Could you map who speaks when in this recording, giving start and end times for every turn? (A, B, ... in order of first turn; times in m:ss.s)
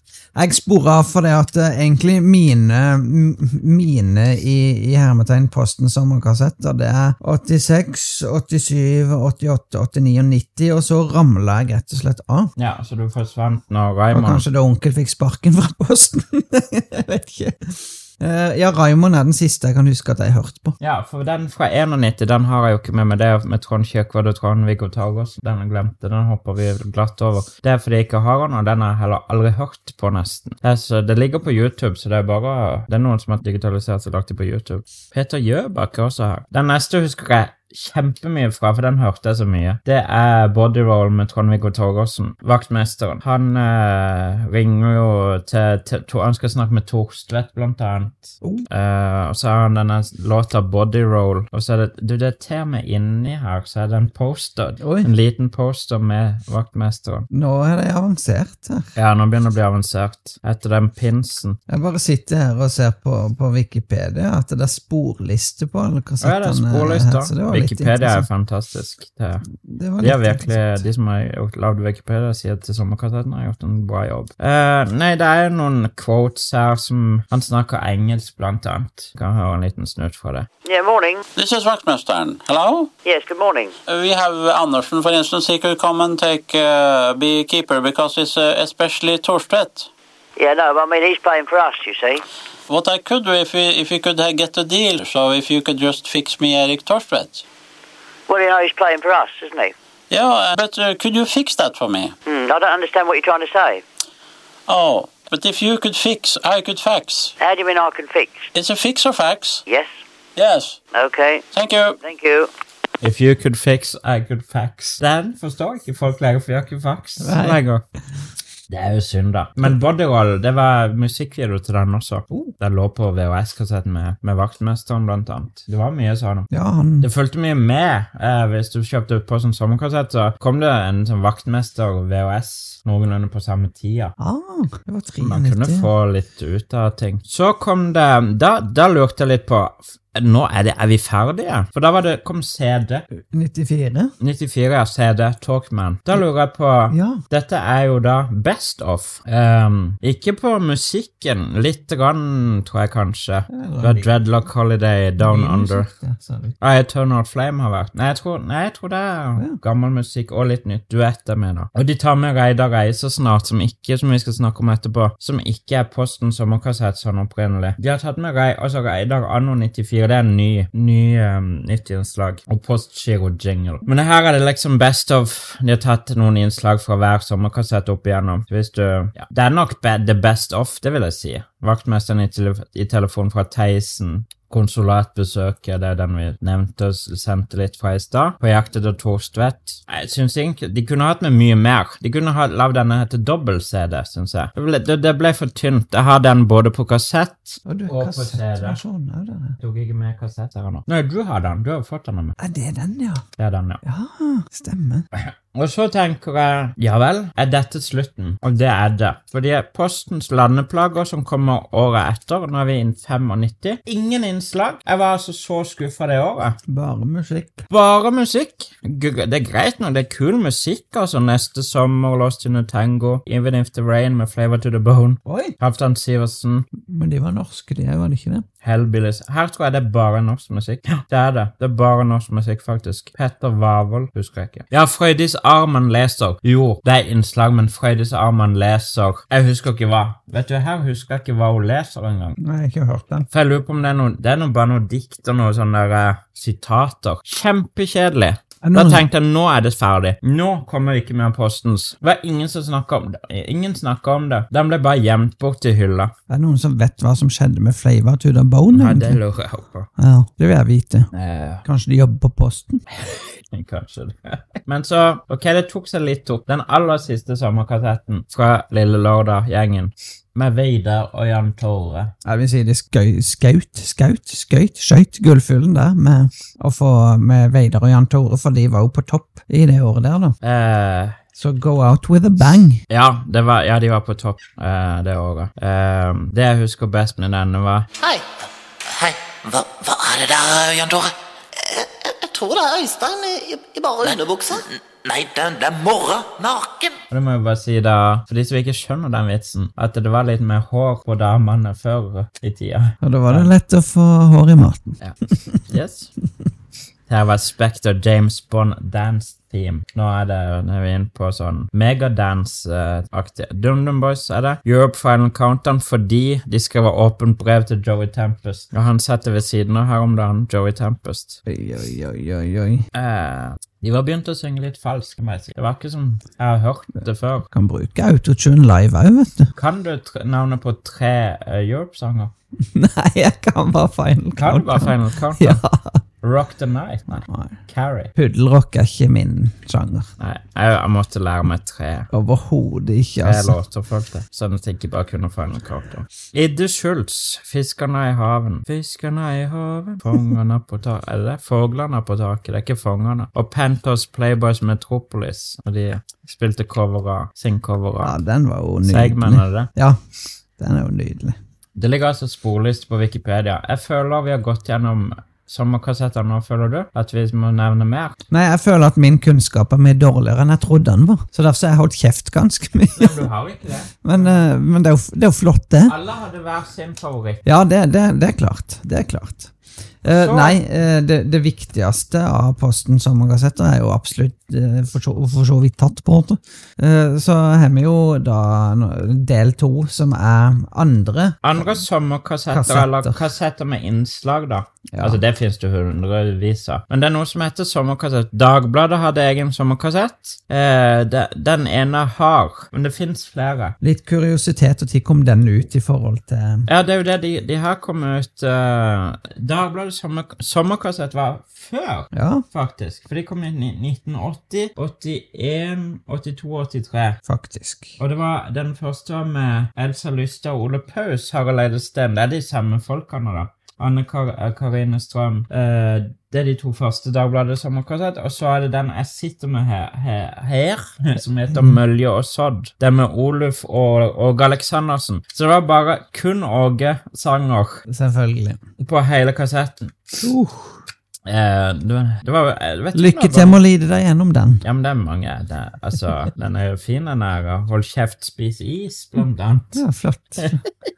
0:00.4-0:12.5 A
0:12.6-0:14.4 B
0:14.1-0:20.8 A
0:20.8-0:57.3 B
0:48.4-0:48.7 A
0:54.8-0:55.1 A
0:57.3-0:58.9 A
0:59.0-1:01.6 B
1:01.7-1:08.3 A
1:06.2-1:09.4 B
1:09.5-1:10.9 A
1:10.0-1:20.5 B
1:20.6-1:21.2 C
1:21.4-1:22.9 D
1:23.0-1:23.7 C
1:23.9-1:29.9 D
1:30.4-1:32.2 C
1:32.7-1:37.4 D
1:38.3-1:39.7 C
1:40.1-1:42.2 D
1:42.3-1:43.8 C
1:44.7-1:47.4 D
1:47.4-1:48.5 C
1:48.5-1:49.6 D
1:50.4-1:50.8 D
1:50.9-1:51.4 C
1:51.5-1:52.0 D
1:52.0-1:52.5 C
1:53.0-1:57.8 B
1:57.2-1:57.6 A
1:58.7-2:06.5 B
2:06.5-2:07.1 A
2:07.0-2:14.2 B
2:14.2-2:15.9 A
2:15.2-2:23.0 B
2:23.2-2:24.1 A
2:24.2-2:35.9 B
2:26.9-2:27.2 A
2:33.5-2:34.1 A
2:35.2-2:36.6 A
2:36.6-3:18.8 B
3:17.6-3:19.6 A
3:19.6-3:22.4 B
3:22.4-3:23.2 A
3:23.4-3:23.8 B
3:23.8-3:25.1 A
3:25.1-3:36.6 B
3:36.7-3:37.7 A
3:37.7-3:46.7 B
3:45.2-3:45.6 A
3:46.8-3:48.4 A
3:48.6-4:02.4 B
4:02.4-4:03.3 A
4:03.3-4:16.1 B
4:08.6-4:09.0 A
4:16.3-4:19.2 A
4:18.7-4:19.9 B
4:20.0-4:21.1 A
4:21.1-4:21.6 B
4:21.6-4:22.8 A
4:23.5-4:32.1 B
4:32.2-4:40.4 A
4:40.4-4:41.2 B
4:41.4-4:42.8 A
4:42.9-4:47.9 B
4:48.9-4:51.1 E
4:51.7-4:57.0 E
4:57.1-5:03.5 B
5:03.0-5:05.0 A
5:05.0-5:06.1 B
5:07.1-5:21.4 B
5:21.5-5:22.8 A
5:22.9-5:27.4 B
5:27.4-5:29.5 A
5:29.6-5:32.3 B
5:32.7-5:36.0 A
5:34.4-5:35.6 B
5:36.2-5:38.1 B
5:37.3-5:37.6 A
5:38.2-5:40.1 A
5:40.2-5:42.1 B
5:42.1-5:43.6 A
5:43.2-5:58.2 B
5:58.0-6:00.0 A
5:58.8-5:59.7 B
6:00.6-6:01.4 A
6:01.8-6:08.2 B
6:08.3-6:13.3 A
6:13.0-6:14.4 B
6:14.0-6:16.0 A
6:15.9-6:17.4 B
6:17.4-6:19.5 A
6:20.0-6:31.8 A
6:20.1-6:20.6 B
6:31.4-6:43.8 B
6:32.5-6:33.2 A
6:34.9-6:35.2 A
6:43.8-6:46.7 A
6:46.7-6:57.2 B
6:52.1-6:52.4 A
6:57.2-6:58.0 A
6:58.0-7:17.8 B
7:11.5-7:11.8 A
7:17.9-7:18.6 A
7:18.8-7:20.2 B
7:20.2-7:20.8 A
7:21.3-7:23.6 B
7:23.0-7:24.6 A
7:24.6-7:29.8 B
7:29.7-7:30.6 A